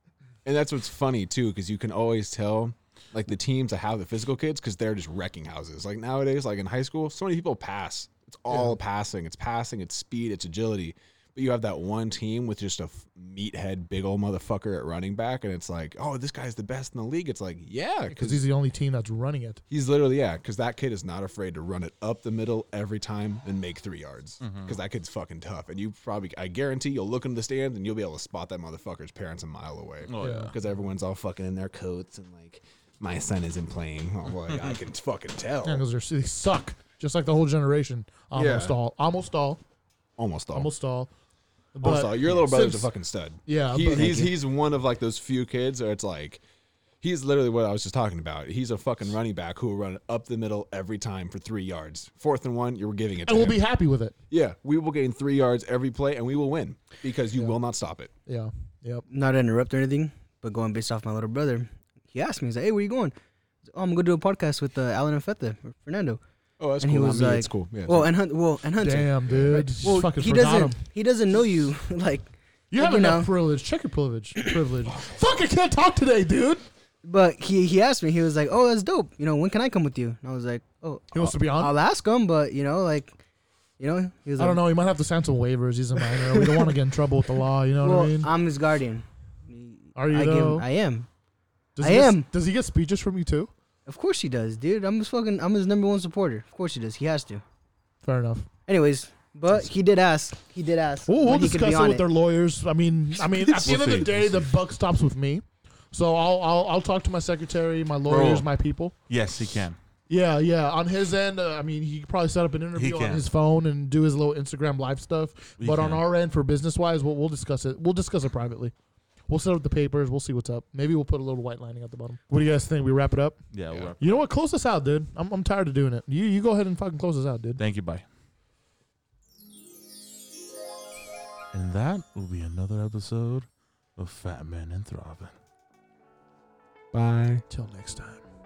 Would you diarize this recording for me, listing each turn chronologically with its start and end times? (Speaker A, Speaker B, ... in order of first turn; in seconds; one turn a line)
Speaker A: 0.4-18.4
Speaker B: 8.5-8.8
Speaker B: 18.1-19.6
Speaker A: 19.7-35.8
Speaker C: 24.4-24.8
Speaker C: 30.1-30.5
Speaker B: 30.2-30.5
Speaker C: 34.5-34.8
Speaker B: 35.6-39.6
Speaker A: 38.3-38.8
Speaker A: 40.2-40.7
Speaker B: 40.5-41.1
Speaker B: 41.7-42.9
Speaker A: 41.8-46.4
Speaker B: 43.5-44.3
Speaker C: 44.0-44.2
Speaker A: 47.0-53.6
Speaker B: 53.2-54.1
Speaker A: 54.3-58.1
Speaker B: 58.3-59.0
Speaker D: 59.1-63.1
Speaker D: 63.7-66.2
Speaker A: 66.6-68.1
Speaker D: 66.8-73.3
Speaker B: 68.8-70.8
Speaker B: 72.7-76.6
Speaker D: 77.0-83.2
Speaker B: 81.1-81.7
Speaker D: 83.8-84.6
Speaker B: 84.4-88.3
Speaker D: 86.0-86.7
Speaker D: 87.8-91.1
Speaker B: 89.9-90.7
Speaker B: 91.8-93.5
Speaker D: 91.8-92.3
Speaker D: 93.9-97.4
Speaker B: 98.0-98.5
Speaker D: 98.7-102.0
Speaker B: 101.1-108.9
Speaker C: 103.2-104.5
Speaker C: 108.1-108.5
Speaker C: 109.1-109.8
Speaker B: 110.1-118.7
Speaker C: 112.7-113.2
Speaker C: 115.6-116.0
Speaker B: 119.3-123.4
Speaker C: 123.5-124.2
Speaker B: 124.0-127.6
Speaker C: 127.6-128.0
Speaker C: 131.5-135.3
Speaker A: 136.9-137.4
Speaker B: 137.5-138.2